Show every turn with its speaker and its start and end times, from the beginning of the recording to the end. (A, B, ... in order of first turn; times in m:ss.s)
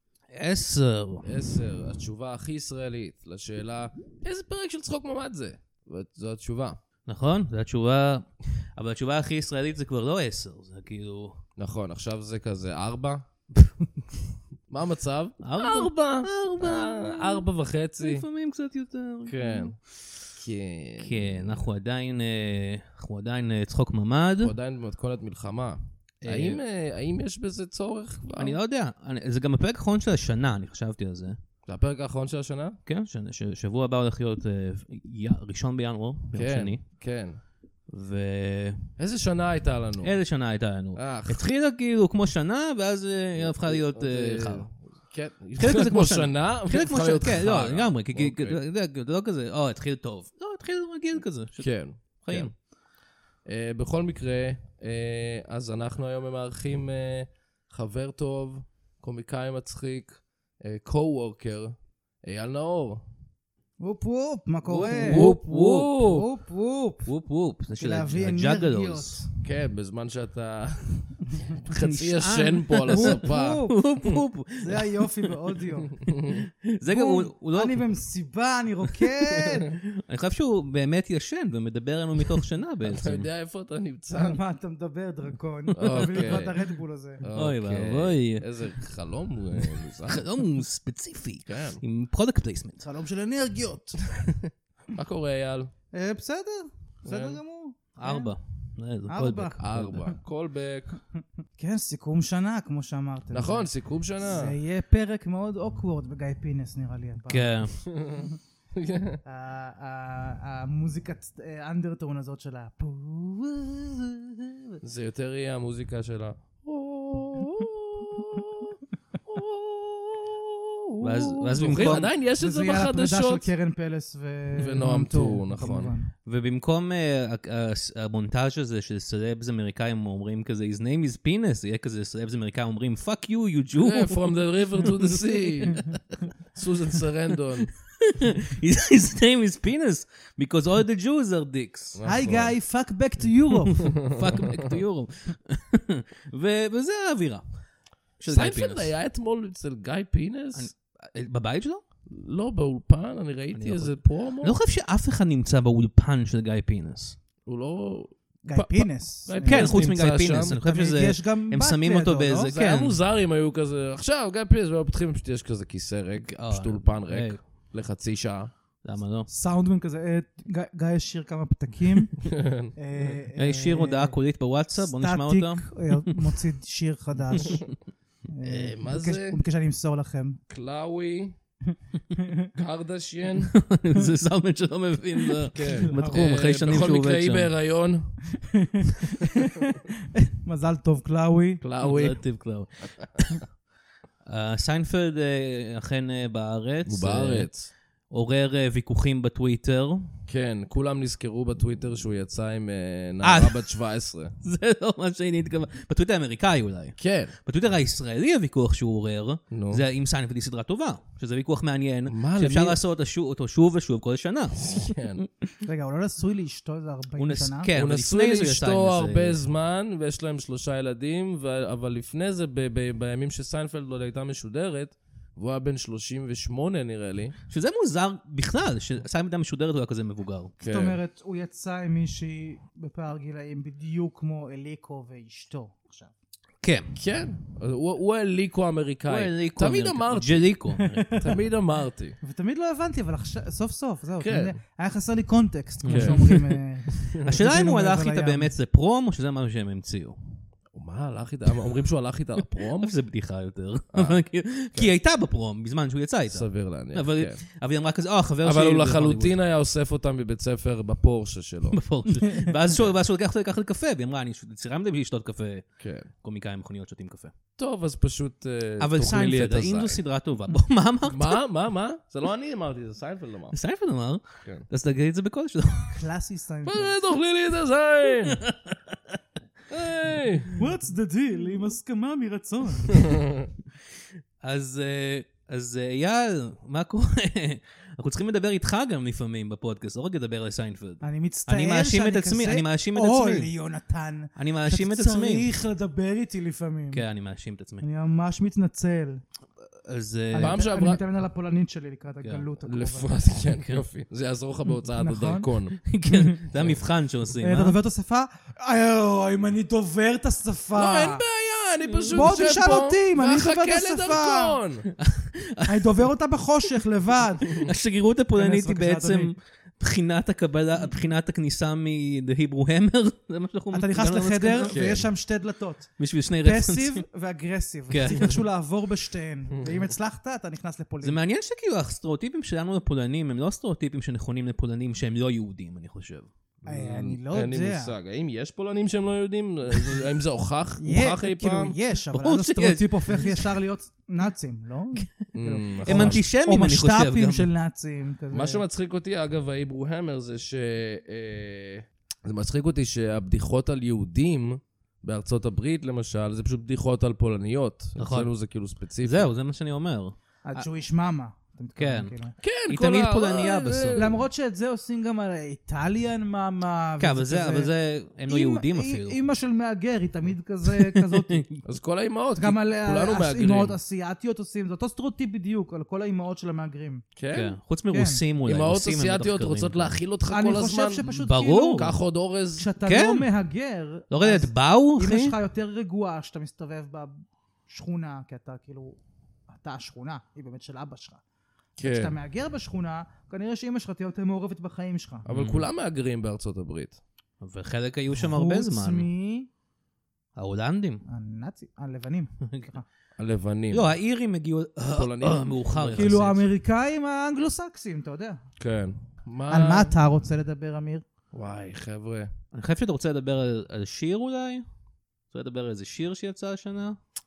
0:00.3-0:01.3 A
0:01.2-0:06.8 B
0:07.1-0:11.4 A
0:11.6-0:13.2 B
0:14.7-0:18.2 B
0:15.4-0:17.4 A
0:18.0-0:19.7 A
0:19.2-0:19.8 B
0:20.4-0:21.6 B
0:21.0-0:24.5 A
0:24.4-0:28.6 B
0:26.2-0:26.6 A
0:28.3-0:31.4 A
0:31.6-0:32.8 B
0:32.8-0:36.8 A
0:36.3-0:37.4 B
0:37.9-0:38.9 A
0:39.0-0:40.2 B
0:40.0-0:44.7 A
0:41.0-0:41.4 B
0:43.4-0:48.6 B
0:45.6-0:52.5 A
0:51.6-0:52.5 B
0:53.4-1:03.0 B
1:03.8-1:07.1 C
1:04.6-1:06.2 A
1:04.9-1:06.0 B
1:07.0-1:09.2 A
1:07.8-1:09.2 C
1:09.4-1:14.1 B
1:11.6-1:15.3 A
1:12.9-1:13.8 C
1:14.6-1:16.0 C
1:16.0-1:16.5 B
1:16.3-1:17.8 A
1:16.9-1:19.7 C
1:19.3-1:23.3 A
1:22.8-1:24.4 B
1:24.1-1:27.2 C
1:25.8-1:26.6 B
1:25.9-1:26.4 A
1:27.2-1:30.2 B
1:27.3-1:28.5 A
1:30.0-1:32.8 A
1:31.5-1:31.8 B
1:32.8-1:34.0 C
1:34.9-1:35.7 B
1:35.9-1:38.3 C
1:37.0-1:37.4 B
1:38.0-1:40.1 A
1:39.1-1:39.7 C
1:39.6-1:41.0 B
1:41.6-1:43.7 C
1:43.3-1:44.5 B
1:44.2-1:47.6 C
1:47.3-1:47.8 A
1:47.9-1:49.2 B
1:49.2-1:54.8 C
1:54.8-2:03.5 B
2:01.0-2:02.1 A
2:01.7-2:06.1 C
2:04.6-2:05.9 B
2:06.3-2:16.0 A
2:13.8-2:16.0 B
2:16.5-2:17.7 B
2:18.0-2:22.0 A
2:21.9-2:22.5 B
2:22.0-2:23.9 C
2:23.7-2:27.4 A
2:24.0-2:24.8 B
2:28.2-2:28.9 A
2:28.3-2:30.7 B
2:30.5-2:31.8 A
2:32.1-2:34.6 B
2:33.5-2:37.2 A
2:37.4-2:40.6 B
2:38.4-2:39.9 C
2:39.4-2:43.0 A
2:40.6-2:42.5 C
2:42.4-2:48.5 B
2:46.2-2:47.4 A
2:48.8-2:49.3 A
2:49.3-2:52.2 C
2:52.2-2:53.1 B
2:52.8-2:54.2 C
2:53.4-2:56.2 A
2:54.8-2:57.7 C
2:58.3-3:00.4 C
2:58.4-2:59.4 B
3:00.5-3:01.4 B
3:02.1-3:02.4 C
3:02.5-3:03.5 B
3:03.4-3:07.5 A
3:05.5-3:08.2 B
3:05.6-3:06.0 C
3:08.5-3:11.6 C
3:11.6-3:12.2 B
3:11.8-3:13.4 A
3:14.2-3:17.5 A
3:16.8-3:17.7 B
3:18.1-3:20.1 A
3:20.3-3:24.3 B
3:23.2-3:23.6 A
3:24.4-3:35.2 A
3:27.0-3:27.3 B
3:29.5-3:29.8 B
3:32.1-3:32.8 B
3:34.6-3:35.2 B
3:35.6-3:37.7 C
3:37.2-3:39.4 A
3:37.7-3:47.3 B
3:47.5-3:50.5 A
3:50.6-3:51.0 B
3:50.6-3:56.1 C
3:56.6-3:56.9 A
3:56.9-4:00.5 B
3:59.1-4:01.0 A
4:00.8-4:01.4 C
4:01.1-4:02.2 B
4:02.2-4:08.5 C
4:04.2-4:04.5 B
4:05.8-4:06.3 A
4:05.9-4:06.6 B
4:07.2-4:10.2 A
4:10.7-4:12.9 B
4:12.6-4:19.4 A
4:13.9-4:14.2 B
4:16.3-4:17.4 B
4:18.4-4:21.8 B
4:21.7-4:25.6 A
4:25.8-4:26.1 B
4:26.2-4:27.3 A
4:27.6-4:30.0 B
4:28.8-4:31.4 A
4:31.1-4:33.6 B
4:33.5-4:36.0 A
4:35.9-4:36.9 C
4:36.6-4:38.4 B
4:38.2-4:38.8 A
4:39.7-4:40.5 B
4:40.6-4:43.0 C
4:42.9-4:43.5 B
4:44.4-4:53.5 A
4:51.0-4:57.0 C
4:54.4-4:55.5 A
4:56.9-4:57.8 A
4:57.8-4:59.2 C
4:59.8-5:00.6 A
5:00.3-5:03.1 C
5:00.4-5:01.0 B
5:02.6-5:05.8 B
5:03.6-5:03.8 A
5:04.8-5:05.5 C
5:05.8-5:07.8 A
5:06.1-5:06.4 C
5:07.4-5:11.2 C
5:10.7-5:14.9 B
5:11.9-5:12.3 A
5:12.1-5:14.6 C
5:14.9-5:15.9 A
5:15.7-5:17.6 C
5:17.6-5:24.9 A
5:18.4-5:19.3 C
5:23.7-5:31.2 C
5:24.7-5:25.1 B
5:26.0-5:27.0 A
5:27.9-5:28.4 A
5:29.6-5:29.8 B
5:31.0-5:37.2 A
5:36.6-5:37.9 C
5:37.2-5:41.8 B
5:40.8-5:48.6 C
5:42.1-5:43.4 A
5:45.3-5:46.2 B
5:45.8-5:47.5 A
5:48.3-5:59.3 B
5:58.0-5:58.3 A
5:59.0-6:00.6 A
6:00.4-6:02.3 C
6:01.8-6:02.1 A
6:02.4-6:04.2 B
6:02.7-6:04.1 A
6:04.0-6:07.7 C
6:07.0-6:09.2 A
6:08.3-6:11.6 C
6:10.6-6:11.4 A
6:11.6-6:13.8 B
6:12.4-6:17.1 C
6:17.2-6:17.6 B
6:17.3-6:20.0 A
6:17.9-6:18.2 C
6:18.4-6:21.0 B
6:20.3-6:21.9 C
6:21.1-6:21.9 A
6:21.8-6:22.7 B
6:22.6-6:27.1 C
6:22.8-6:23.3 A
6:24.1-6:25.4 A
6:27.7-6:29.0 C
6:29.5-6:31.2 C
6:31.8-6:32.2 B
6:31.8-6:35.2 C
6:35.3-6:37.0 B
6:35.3-6:35.7 A
6:37.4-6:39.1 A
6:38.1-6:39.5 C
6:40.4-6:41.0 A
6:41.1-6:42.8 C
6:43.2-6:43.9 B
6:43.7-6:46.4 A
6:44.9-6:46.2 B
6:45.9-6:48.4 C
6:48.6-6:49.9 B
6:49.5-6:51.0 C
6:51.3-6:52.3 B
6:52.5-6:54.6 A
6:55.3-6:57.0 A